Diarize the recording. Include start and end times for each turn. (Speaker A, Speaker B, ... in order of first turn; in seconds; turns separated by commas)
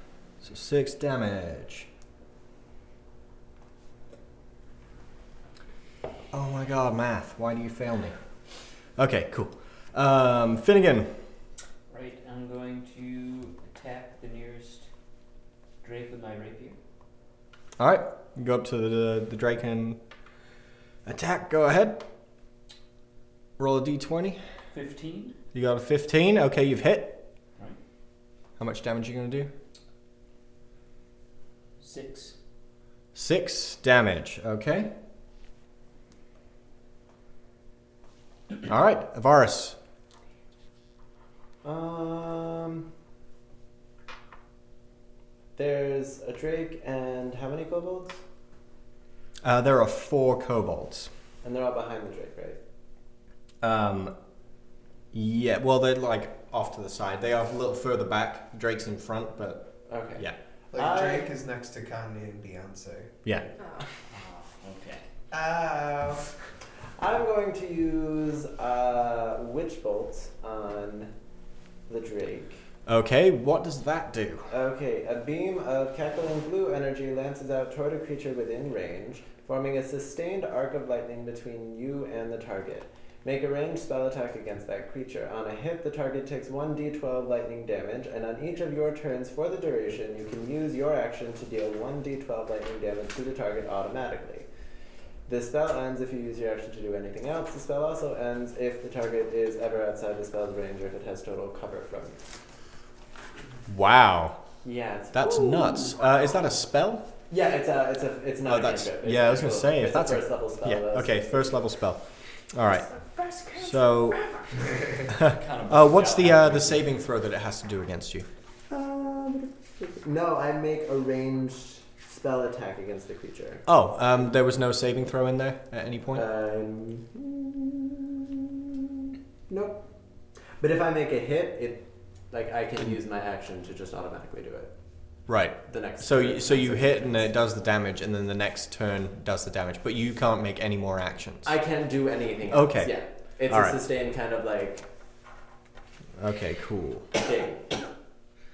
Speaker A: 0.4-1.9, Speaker A: 6.3-8.1, Speaker A: 8.9-11.2, Speaker B: 11.9-14.9, Speaker B: 15.8-16.8, Speaker A: 17.8-20.0, Speaker A: 21.0-22.1, Speaker A: 23.6-24.4, Speaker B: 24.7-25.4, Speaker A: 25.5-27.2, Speaker A: 28.6-29.5, Speaker B: 31.8-32.4, Speaker A: 33.1-34.9, Speaker A: 38.6-39.8, Speaker C: 41.6-42.9, Speaker C: 45.6-48.2, Speaker A: 49.4-51.1, Speaker C: 51.4-52.6, Speaker A: 53.6-54.1, Speaker A: 55.1-60.3, Speaker C: 59.9-61.3, Speaker D: 60.7-63.2, Speaker E: 63.6-63.9, Speaker B: 64.1-65.0, Speaker D: 65.3-66.2, Speaker C: 67.0-71.1, Speaker C: 71.9-72.6, Speaker A: 72.8-74.5, Speaker C: 74.5-94.5, Speaker C: 95.2-102.2, Speaker A: 103.7-104.4, Speaker C: 104.6-106.0, Speaker A: 105.1-107.1, Speaker C: 107.3-111.6, Speaker A: 108.4-112.8, Speaker E: 112.6-114.9, Speaker A: 113.6-114.2, Speaker A: 115.1-118.3, Speaker B: 115.2-116.9, Speaker C: 118.7-123.7, Speaker A: 123.7-126.2, Speaker C: 126.1-128.6, Speaker C: 129.5-129.9, Speaker C: 130.6-134.7, Speaker A: 135.3-141.5, Speaker C: 135.7-137.3, Speaker C: 141.4-144.9, Speaker A: 142.5-143.8, Speaker A: 146.2-147.1, Speaker C: 147.1-147.8